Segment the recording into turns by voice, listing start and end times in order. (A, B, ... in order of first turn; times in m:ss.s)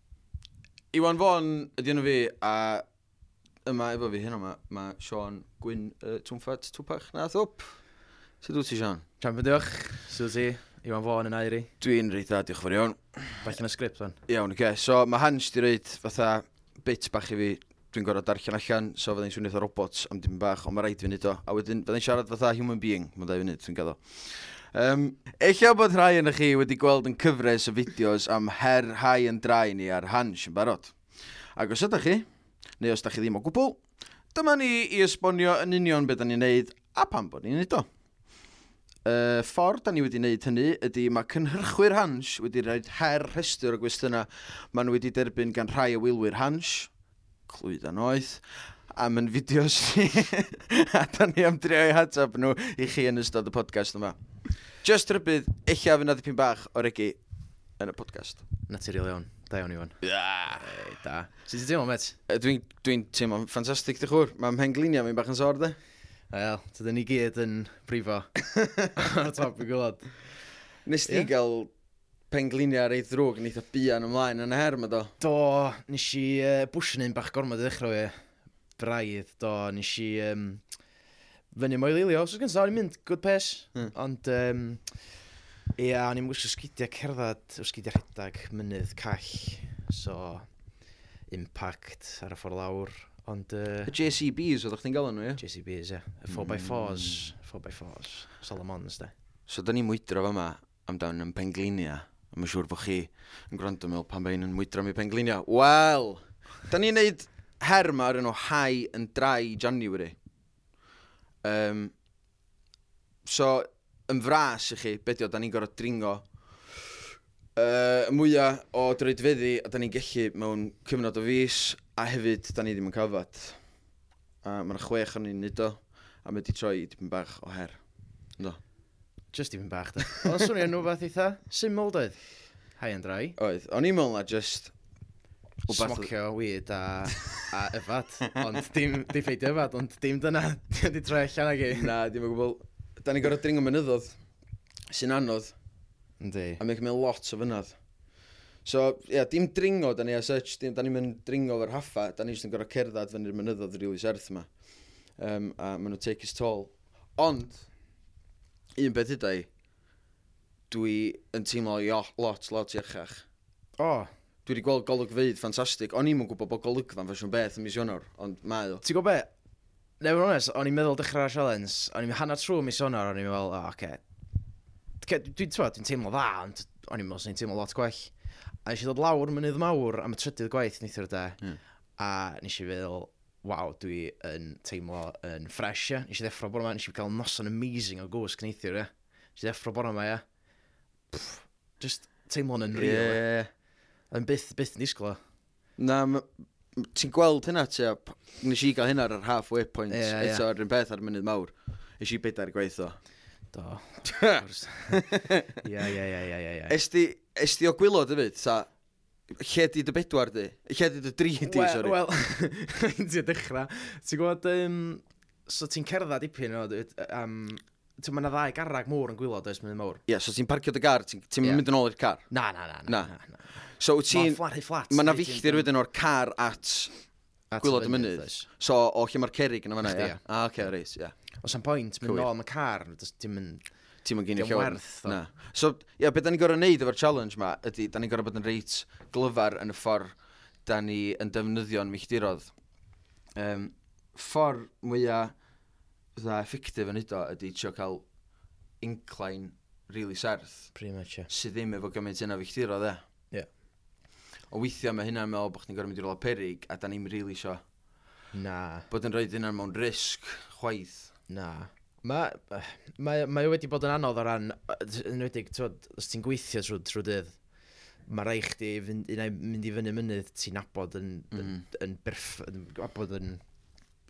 0:00.9-0:02.8 A
0:03.6-0:07.8 A
0:08.4-0:09.0 A
0:09.2-0:11.7 B
0:11.8-0:13.4 A
0:13.4-0:14.2 B
0:14.3-0:30.9 A
0:31.6-0:32.2 A
0:32.8-0:33.8 A
0:34.3-0:37.9 A
0:39.0-0:46.9 A
0:47.5-0:54.2 A
0:54.7-0:57.2 A
0:57.8-0:58.4 A
0:58.7-1:02.2 B
1:00.0-1:00.8 A
1:02.3-1:05.8 A
1:06.3-1:08.4 B
1:08.5-1:08.9 A
1:08.9-1:10.1 B
1:10.8-1:11.7 A
1:12.3-1:15.1 A
1:15.2-1:18.2 B
1:18.8-1:20.6 B
1:21.5-1:24.8 B
1:25.8-1:30.5 B
1:31.3-1:33.9 B
1:33.8-1:35.4 A
1:35.4-1:39.1 B
1:36.3-1:37.3 A
1:39.5-1:50.2 A
1:51.4-1:51.9 A
1:53.2-1:56.2 A
1:57.6-2:03.6 A
2:04.4-2:07.8 A
2:09.3-2:12.2 B
2:12.8-2:13.4 B
2:13.4-2:14.7 A
2:15.7-2:21.9 B
2:15.7-2:16.1 A
2:21.7-2:24.2 A
2:24.9-2:25.5 A
2:26.2-2:26.6 B
2:26.6-2:27.8 A
2:28.6-2:34.5 A
2:35.2-2:37.6 A
2:38.8-2:39.5 A
2:40.7-2:43.2 A
2:43.8-2:44.1 B
2:44.4-2:48.8 A
2:48.8-2:49.3 B
2:50.0-2:54.0 B
2:55.0-2:58.1 B
2:58.6-3:01.4 B
3:02.0-3:10.2 B
3:11.1-3:13.2 B
3:12.7-3:13.5 A
3:14.1-3:15.2 B
3:15.8-3:23.0 A
3:19.9-3:20.4 B
3:23.5-3:26.8 B
3:24.0-3:25.5 A
3:26.7-3:28.7 A
3:29.3-3:32.0 A
3:31.4-3:40.0 B
3:40.1-3:42.3 A
3:42.3-3:43.6 B
3:42.9-3:46.9 A
3:44.1-3:45.7 B
3:47.5-3:48.5 B
3:47.6-3:51.1 A
3:49.8-3:50.2 B
3:51.4-3:53.6 B
3:52.0-3:52.3 A
3:54.0-4:00.1 A
3:54.3-3:55.2 B
4:00.6-4:02.5 A
4:03.3-4:05.3 A
4:06.1-4:08.0 A
4:08.8-4:10.7 A
4:10.7-4:11.3 B
4:11.3-4:13.0 A
4:14.5-4:17.6 A
4:18.3-4:18.9 B
4:18.9-4:21.1 A
4:21.3-4:27.4 B
4:28.1-4:33.4 B
4:31.3-4:31.6 A